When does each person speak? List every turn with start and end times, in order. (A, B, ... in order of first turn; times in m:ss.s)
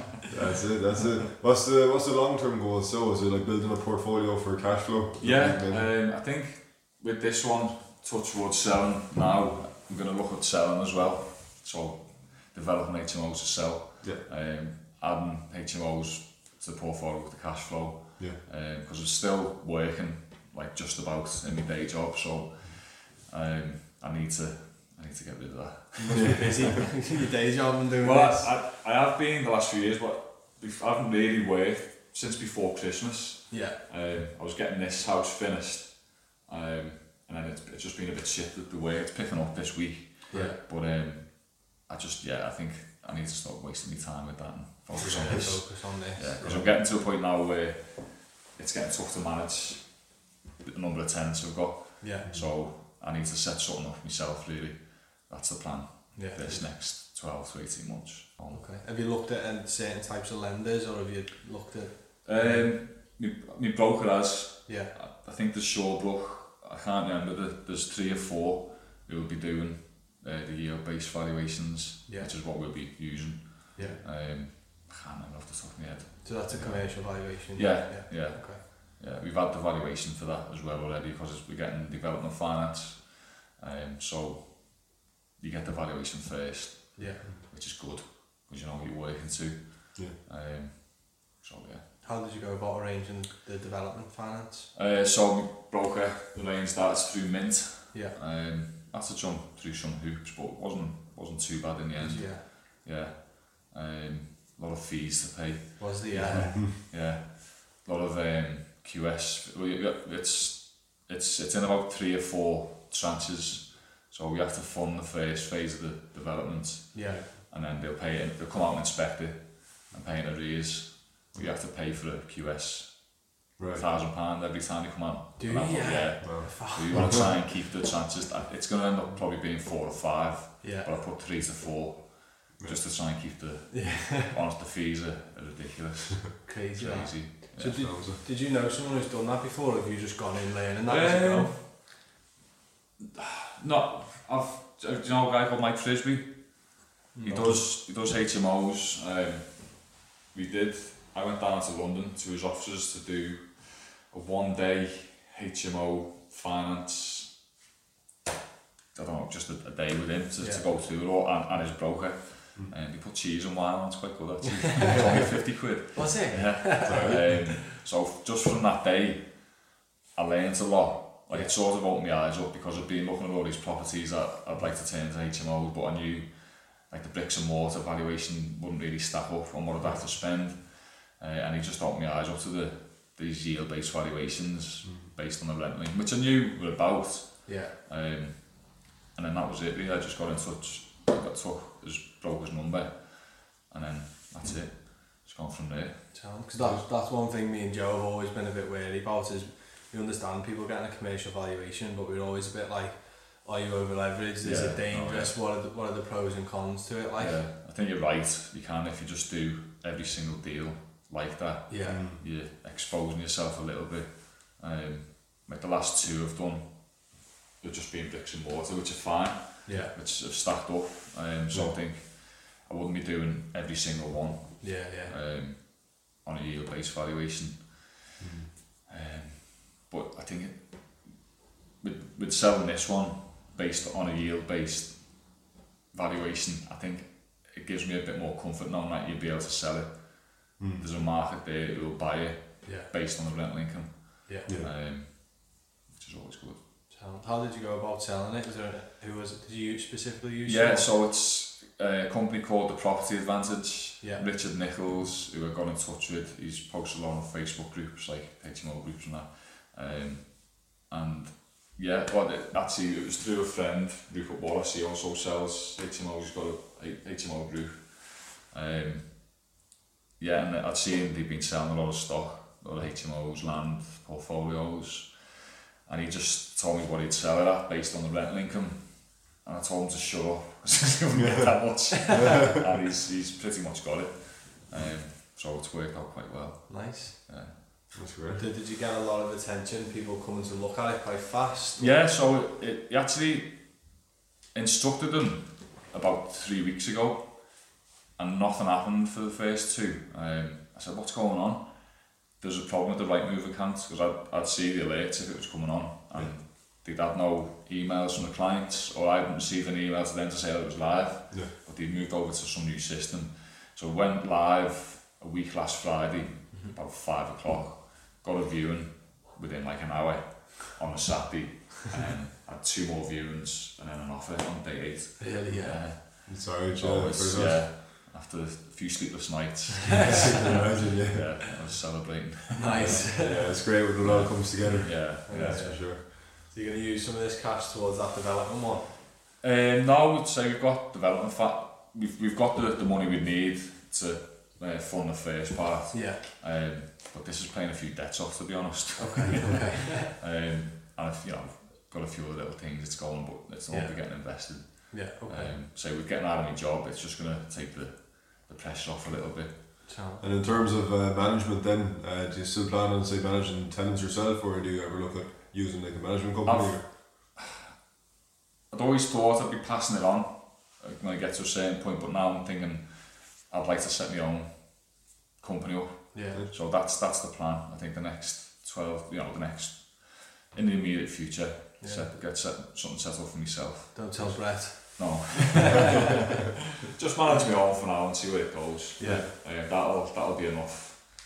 0:00.3-0:05.9 A
0:05.2-0:26.8 B
0:26.0-0:28.5 C
0:26.1-0:26.7 A
0:28.0-0:58.7 B
0:33.5-0:33.8 C
0:40.3-0:40.6 C
0:45.0-0:46.7 C
0:52.0-0:52.3 C
0:52.2-0:52.5 A
0:56.1-0:56.7 C
0:58.5-1:02.7 C
1:02.2-1:31.8 B
1:04.6-1:04.9 C
1:12.1-1:12.3 C
1:13.7-1:14.0 C
1:16.2-1:18.6 C
1:27.0-1:27.2 C
1:32.0-1:34.7 C
1:34.7-2:18.0 B
1:42.0-1:42.4 C
1:45.8-1:46.6 C
1:46.3-1:46.7 A
1:56.9-1:57.2 C
2:01.3-2:01.6 A
2:03.6-2:03.8 A
2:05.4-2:07.1 C
2:06.2-2:07.0 A
2:10.6-2:10.9 C
2:13.7-2:14.3 C
2:16.4-2:21.6 C
2:17.6-2:18.2 A
2:20.9-2:21.7 B
2:23.0-2:37.3 B
2:27.1-2:27.7 C
2:38.9-3:16.3 B
2:40.4-2:40.7 C
2:44.8-2:47.4 C
2:46.8-2:47.4 A
2:51.3-2:51.6 C
3:04.8-3:05.1 A
3:07.4-3:07.7 C
3:16.1-3:27.4 C
3:16.5-3:16.8 A
3:24.4-3:25.4 B
3:27.2-3:48.3 B
3:31.7-3:32.0 C
3:31.8-3:32.2 A
3:39.6-3:39.9 C
3:41.5-3:41.8 A
3:44.6-3:45.1 C
3:48.2-3:48.5 A
3:48.9-3:51.3 B
3:51.8-4:06.6 B
4:00.6-4:00.9 A
4:02.6-4:02.9 C
4:04.4-4:04.7 A
4:06.9-4:10.9 C
4:10.4-4:29.4 B
4:14.0-4:14.2 C
4:30.2-4:47.9 B
4:46.7-4:47.1 C
4:47.9-4:48.4 A
4:48.4-4:52.1 C
4:51.8-4:54.0 B
4:54.5-5:33.1 B
5:25.2-5:25.9 C
5:26.2-5:27.7 A
5:30.0-5:31.5 A
5:32.5-5:33.6 C
5:32.8-5:36.0 A
5:34.0-5:35.8 B
5:35.2-5:39.0 C
5:39.4-5:59.8 B
5:45.9-5:46.2 C
5:49.0-5:50.1 C
5:53.7-5:55.6 C
5:59.8-6:00.2 C
6:00.2-6:06.9 A
6:06.4-6:07.4 B
6:08.7-6:26.0 B
6:16.1-6:16.4 C
6:21.8-6:22.1 C
6:23.9-6:26.1 C
6:26.9-6:31.1 B
6:29.0-6:29.3 C